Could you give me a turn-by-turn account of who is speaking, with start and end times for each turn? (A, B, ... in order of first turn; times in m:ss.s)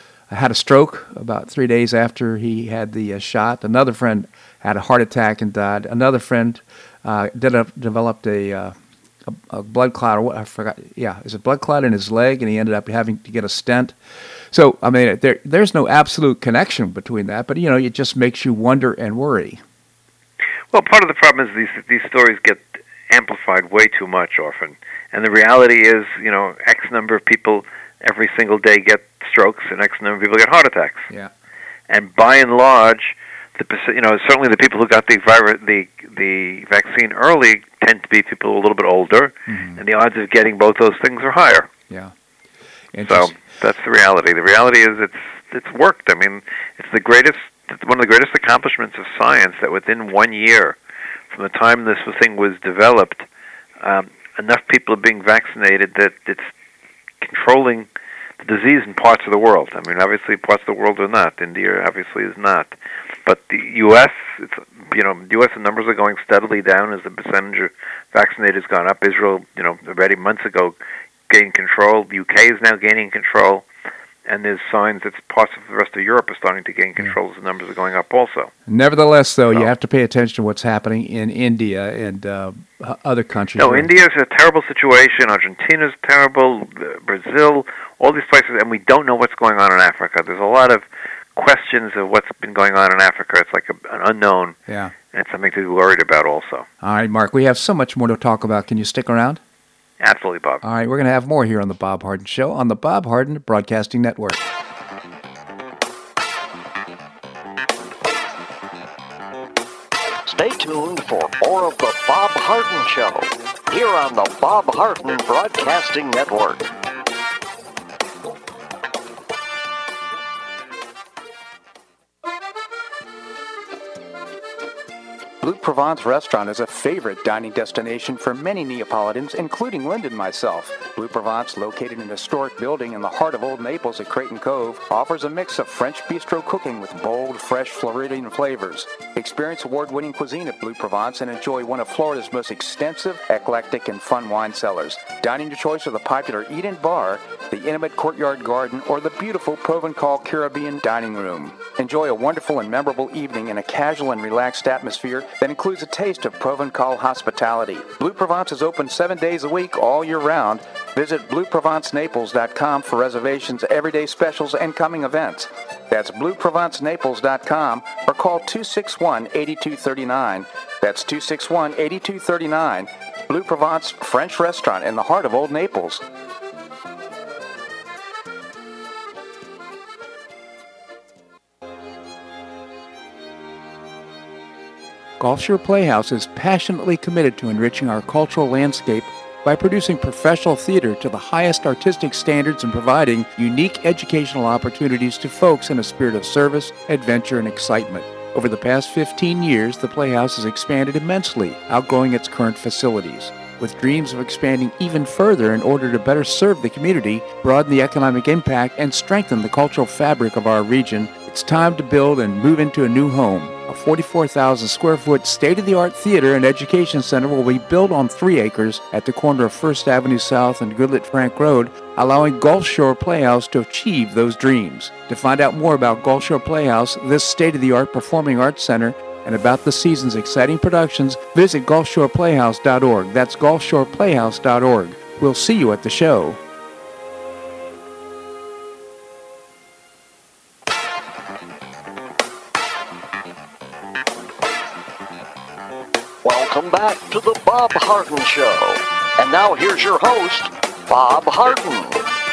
0:00.3-0:14.0 A
0:14.5-0:19.6 A
0:20.7-0:31.1 B
0:31.9-0:41.7 B
0:39.5-0:39.8 A
0:42.9-0:43.4 A
0:43.0-0:50.8 B
0:51.3-0:53.3 B
0:53.8-0:56.5 B
0:57.2-0:57.9 B
0:58.4-1:02.7 B
1:03.3-1:10.8 B
1:11.3-1:13.6 B
1:14.3-1:18.5 B
1:18.7-1:23.9 A
1:23.6-1:30.8 B
1:31.4-1:34.6 B
1:34.7-1:34.9 A
1:35.1-1:36.7 B
1:36.8-1:39.4 A
1:40.0-1:40.6 B
1:40.6-1:44.5 A
1:50.3-1:56.7 C
2:05.4-2:56.0 A
3:05.2-3:56.4 A
4:06.2-4:12.0 C